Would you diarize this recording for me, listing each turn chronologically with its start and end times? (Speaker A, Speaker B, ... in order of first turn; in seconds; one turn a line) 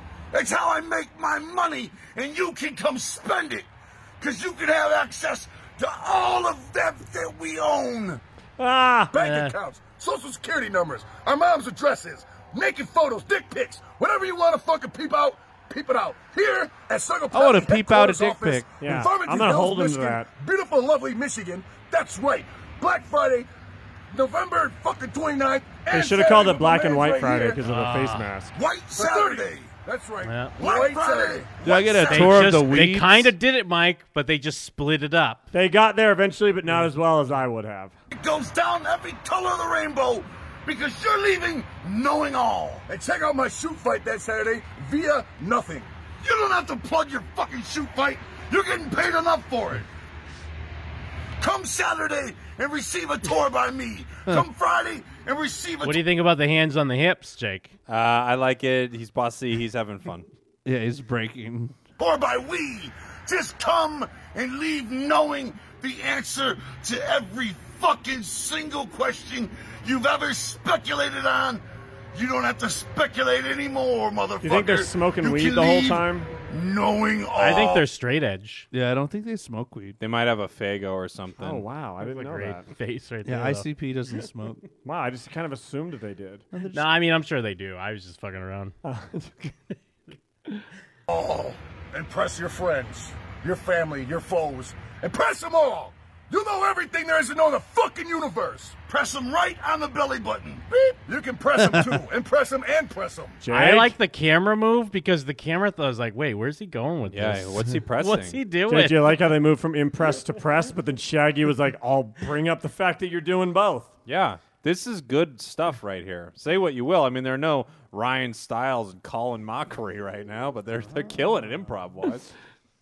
Speaker A: 0.3-3.6
Speaker A: 4.2-8.2
Speaker B: 8.6-9.1
Speaker C: 9.1-23.5
Speaker D: 9.2-9.5
Speaker E: 17.3-18.7
Speaker B: 18.8-20.3
Speaker C: 24.1-27.6
Speaker B: 25.9-28.5
Speaker D: 27.6-28.3
Speaker A: 28.5-29.8
Speaker C: 28.9-32.1
Speaker D: 30.2-30.6
Speaker A: 30.6-32.7
Speaker E: 31.6-33.3
Speaker D: 32.1-35.4
Speaker B: 35.5-37.9
Speaker A: 38.1-42.8
Speaker C: 42.9-45.9
Speaker A: 46.2-49.9
Speaker A: 51.4-56.0
Speaker D: 55.8-57.7
Speaker F: 57.9-60.3
Speaker E: 60.6-61.8
Speaker A: 62.0-71.6
Speaker A: 72.1-77.8
Speaker B: 74.4-76.3
Speaker D: 77.3-78.7
Speaker E: 78.7-80.0
Speaker F: 80.0-81.6
Speaker B: 81.4-82.6
Speaker D: 82.0-83.7
Speaker E: 83.2-84.6
Speaker B: 84.8-86.4
Speaker E: 86.5-86.9
Speaker D: 86.7-88.7
Speaker B: 88.8-89.5
Speaker C: 91.1-98.9
Speaker A: 98.8-100.7
Speaker C: 100.7-103.4
Speaker E: 101.6-101.9
Speaker B: 103.4-103.9
Speaker D: 103.5-109.1
Speaker F: 107.1-108.4
Speaker B: 108.7-113.9
Speaker F: 114.0-122.3